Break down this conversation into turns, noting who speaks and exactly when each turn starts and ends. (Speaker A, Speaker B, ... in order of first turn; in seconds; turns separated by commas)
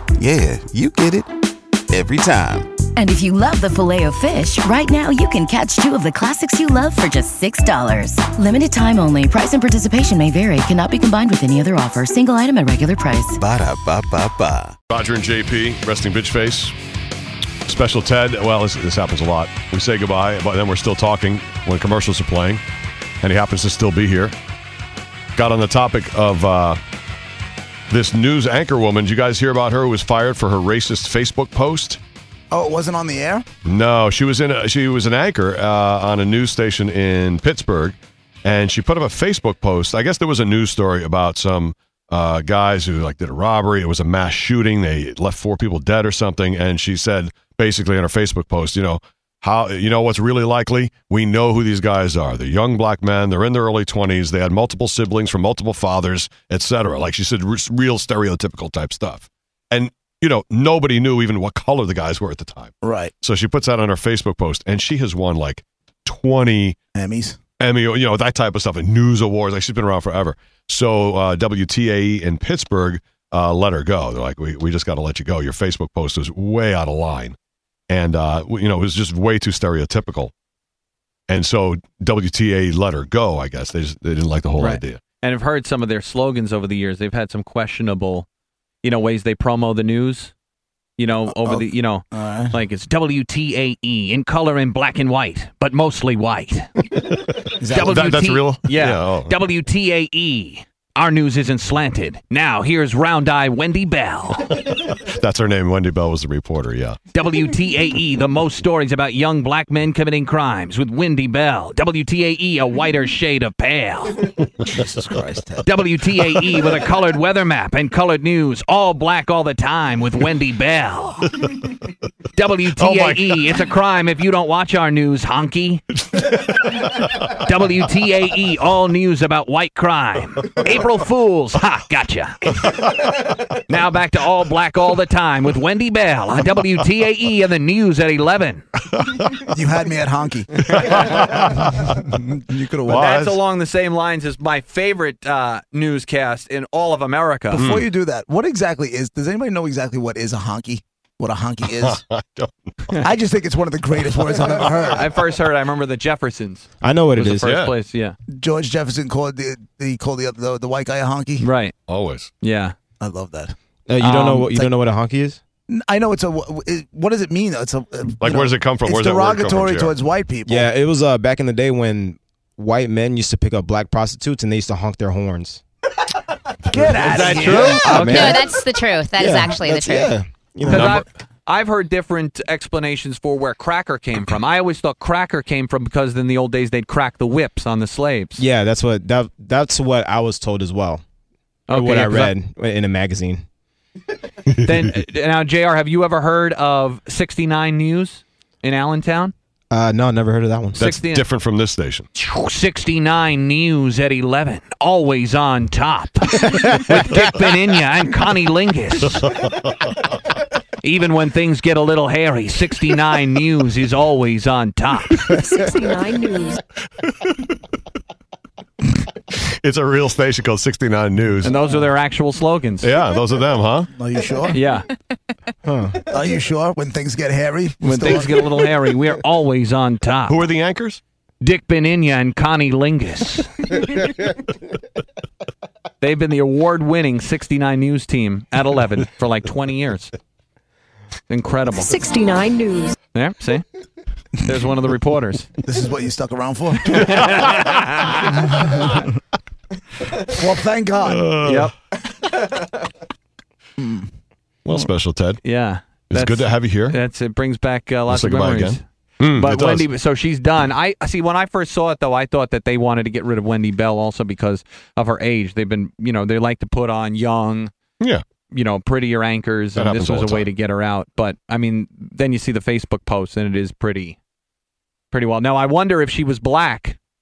Speaker A: 0.2-1.3, Speaker A: 1.9-2.7, Speaker B: 3.0-13.4, Speaker A: 13.3-14.7, Speaker C: 14.9-16.7, Speaker C: 17.6-22.6, Speaker C: 23.2-24.3, Speaker C: 25.4-26.8, Speaker C: 27.9-32.0, Speaker D: 32.5-33.4, Speaker C: 33.6-66.8, Speaker D: 62.8-63.1, Speaker D: 66.9-67.4, Speaker C: 67.6-77.3, Speaker C: 77.9-80.3, Speaker C: 81.3-85.0, Speaker E: 84.6-88.3, Speaker E: 88.8-90.3, Speaker E: 91.0-96.7, Speaker D: 91.4-92.5, Speaker D: 97.5-98.1, Speaker E: 97.7-104.6, Speaker C: 97.8-99.3, Speaker C: 105.0-107.0, Speaker E: 107.1-114.3, Speaker D: 114.7-115.7, Speaker E: 115.6-121.3, Speaker E: 122.3-125.8, Speaker C: 122.8-123.4, Speaker E: 127.2-138.6, Speaker C: 139.0-139.3, Speaker D: 139.5-143.1, Speaker C: 140.7-142.1, Speaker C: 142.8-143.4, Speaker E: 142.9-147.7, Speaker D: 147.5-152.0, Speaker C: 147.6-147.9, Speaker C: 151.7-153.0, Speaker D: 153.0-155.1, Speaker E: 154.8-158.1, Speaker F: 156.8-157.5, Speaker C: 157.5-157.7, Speaker D: 158.3-161.4, Speaker E: 161.4-161.7, Speaker C: 161.9-162.3, Speaker E: 162.4-162.7, Speaker D: 163.0-163.5, Speaker F: 163.9-165.4, Speaker E: 164.0-164.5, Speaker D: 165.7-170.7, Speaker C: 168.2-170.0, Speaker F: 170.4-175.6, Speaker F: 176.7-178.6, Speaker D: 176.7-178.3, Speaker E: 177.0-178.3, Speaker G: 177.9-180.1, Speaker F: 179.2-181.0, Speaker E: 180.6-188.4, Speaker C: 180.7-181.0, Speaker F: 188.4-191.0, Speaker E: 191.7-192.3, Speaker F: 191.7-193.4, Speaker E: 194.6-199.3, Speaker F: 199.7-200.8, Speaker E: 200.8-201.3, Speaker C: 200.8-202.1, Speaker E: 202.2-209.3, Speaker E: 210.8-215.3, Speaker H: 215.4-216.6, Speaker C: 217.0-217.6, Speaker C: 219.3-221.6, Speaker E: 221.4-222.9, Speaker C: 222.8-223.9, Speaker D: 223.9-224.6, Speaker E: 224.5-224.9, Speaker F: 225.6-226.0, Speaker D: 226.1-228.6, Speaker E: 227.8-230.4, Speaker C: 230.3-231.0, Speaker E: 231.4-234.0, Speaker E: 236.0-240.1, Speaker E: 241.3-241.9, Speaker H: 241.8-242.9, Speaker E: 243.1-243.6, Speaker E: 244.4-245.5, Speaker D: 245.6-247.3, Speaker E: 246.8-248.2, Speaker D: 250.3-251.3, Speaker C: 251.0-251.7, Speaker E: 251.4-251.7, Speaker D: 253.8-254.1, Speaker C: 254.6-255.4, Speaker E: 255.4-267.7, Speaker C: 256.1-257.0, Speaker C: 258.1-259.9, Speaker E: 268.5-274.2, Speaker C: 269.7-270.5, Speaker E: 275.1-277.0